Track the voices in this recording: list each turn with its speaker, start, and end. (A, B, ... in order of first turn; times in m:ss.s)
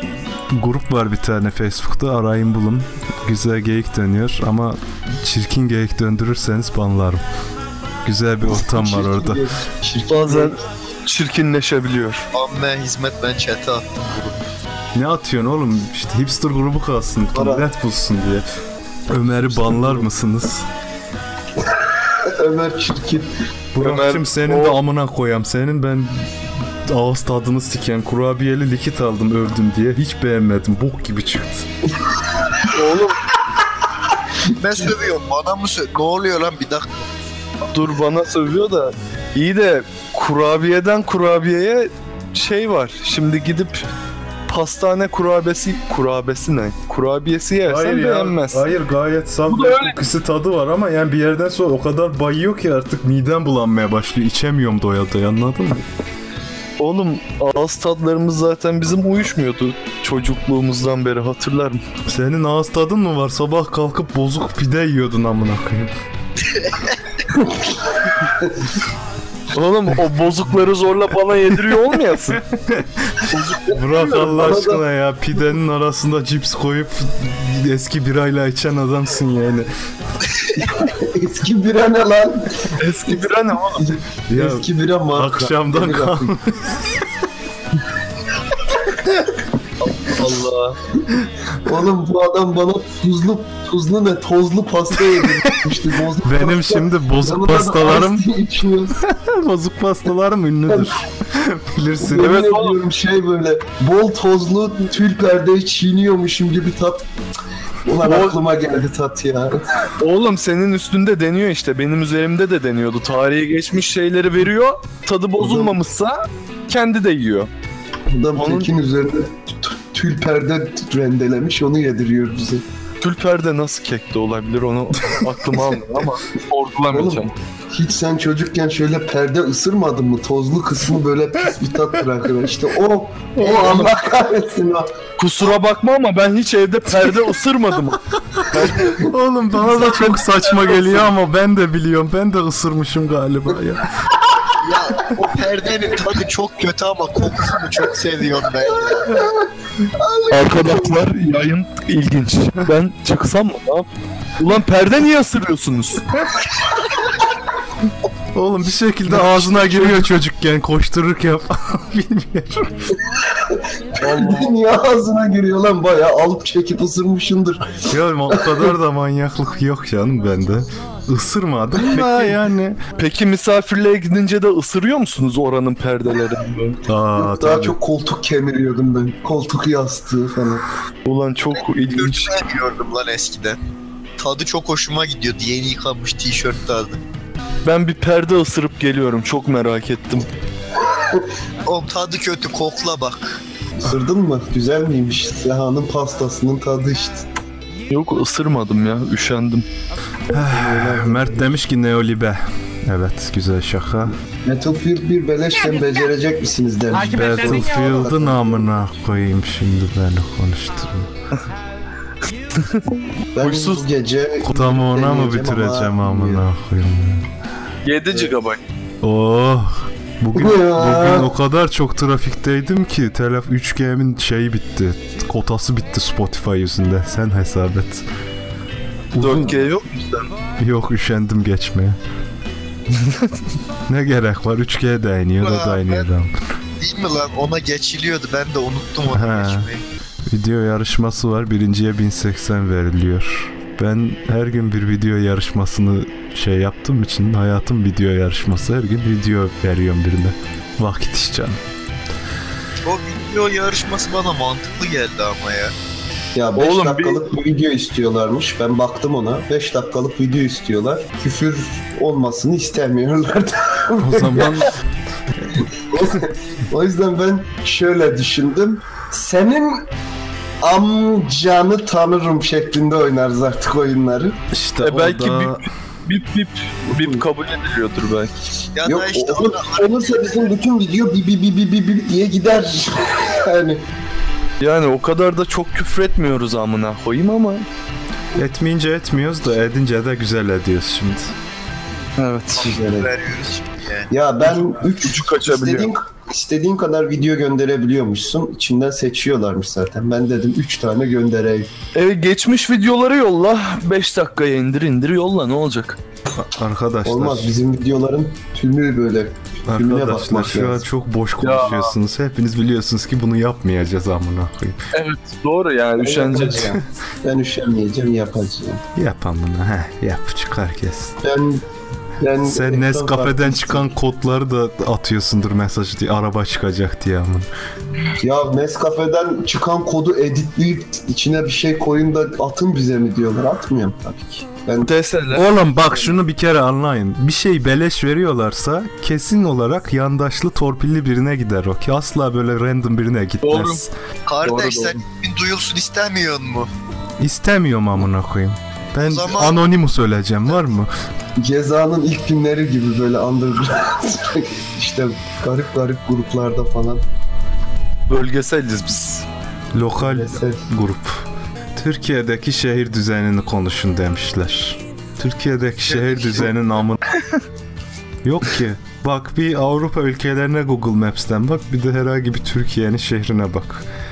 0:00.5-0:07.2 A
0:08.0-0:09.4 A
0:08.5-0:10.6 B
0:10.1-0:12.3 C
0:12.3-0:14.0 D
0:15.0-0:18.4 A
0:17.3-0:17.7 B
0:19.1-0:20.7 A
0:19.5-0:20.0 B
0:21.8-0:23.3 B
0:23.7-0:26.3 A
0:23.8-0:24.8 C
0:26.9-0:31.7 A
0:32.7-0:33.2 C
0:34.5-0:37.1 D
0:37.7-0:43.9 C
0:44.5-0:48.7 C
0:47.6-0:55.9 A
0:49.5-0:50.0 C
0:56.8-1:01.8 C
1:02.1-1:05.9 A
1:06.5-1:07.0 D
1:09.5-1:12.4 C
1:12.5-1:19.7 A
1:13.3-1:14.4 C
1:14.2-1:14.8 B
1:20.6-1:26.4 B
1:22.8-1:23.8 C
1:24.3-1:27.0 A
1:29.9-1:30.8 C
1:31.6-1:39.0 B
1:36.2-1:38.3 A
1:39.0-1:42.4 A
1:40.7-1:41.0 B
1:42.0-1:47.1 B
1:42.2-1:42.8 C
1:47.8-1:49.6 B
1:48.0-1:48.4 C
1:50.0-1:57.5 C
1:55.4-1:55.8 B
1:58.1-2:02.6 B
1:58.4-1:58.7 C
2:03.0-2:07.3 C
2:06.9-2:14.9 B
2:13.4-2:13.9 C
2:15.2-2:18.9 C
2:18.4-2:24.1 A
2:19.6-2:21.1 C
2:24.6-2:29.3 D
2:29.0-2:31.0 B
2:30.3-2:33.9 C
2:34.4-2:36.4 C
2:38.3-2:42.7 A
2:39.1-2:40.0 C
2:43.1-2:48.7 B
2:44.0-2:44.6 C
2:47.9-2:52.8 A
2:51.8-2:52.4 C
2:53.0-2:56.8 C
2:56.9-2:57.8 A
2:57.2-3:00.6 B
3:01.0-3:02.4 C
3:01.6-3:03.6 D
3:04.2-3:07.0 D
3:07.6-3:10.3 C
3:10.9-3:11.3 B
3:11.6-3:13.4 D
3:13.8-3:17.3 B
3:17.9-3:19.7 C
3:20.3-3:24.2 A
3:20.3-3:21.5 B
3:24.3-3:28.8 B
3:27.0-3:31.1 A
3:32.6-3:32.8 C
3:33.4-3:36.5 B
3:33.4-3:33.9 C
3:34.4-3:37.3 A
3:37.8-3:38.6 C
3:39.0-3:48.0 A
3:40.3-3:41.3 B
3:49.1-3:49.6 A
3:49.2-3:50.3 C
3:50.6-3:52.0 A
3:52.9-3:53.3 C
3:53.9-3:56.3 A
3:55.4-3:56.1 D
3:56.8-3:59.8 D
3:59.1-3:59.7 A
4:00.3-4:11.6 A
4:12.8-4:15.8 D
4:16.3-4:24.6 B
4:16.6-4:17.2 C
4:24.0-4:24.8 A
4:25.5-4:29.9 B
4:30.6-4:34.4 B
4:34.5-4:35.6 A
4:34.8-4:38.3 C
4:36.9-4:37.2 B
4:38.8-4:40.5 D
4:38.8-4:43.8 B
4:44.6-4:47.7 C
4:48.4-4:51.3 A
4:52.2-4:52.8 C
4:52.6-4:53.1 B
4:52.6-4:54.1 D
4:54.1-5:01.7 B
4:54.5-4:55.9 C
5:02.0-5:06.0 C
5:06.4-5:07.5 A
5:07.0-5:10.9 B
5:09.7-5:14.8 A
5:11.4-5:11.9 C
5:14.9-5:16.8 C
5:16.0-5:18.8 B
5:19.0-5:21.2 A
5:21.2-5:21.6 B
5:22.2-5:23.9 B
5:22.4-5:27.5 A
5:28.2-5:34.9 B
5:34.8-5:35.4 C
5:35.3-5:43.9 A
5:43.4-5:43.8 C
5:44.3-5:46.7 D
5:44.4-5:45.0 C
5:47.2-5:50.9 A
5:49.0-5:49.6 D
5:51.4-5:57.0 B
5:58.1-5:59.2 C
5:59.7-6:07.0 A
6:00.0-6:00.7 B
6:05.9-6:06.5 D
6:08.2-6:13.9 A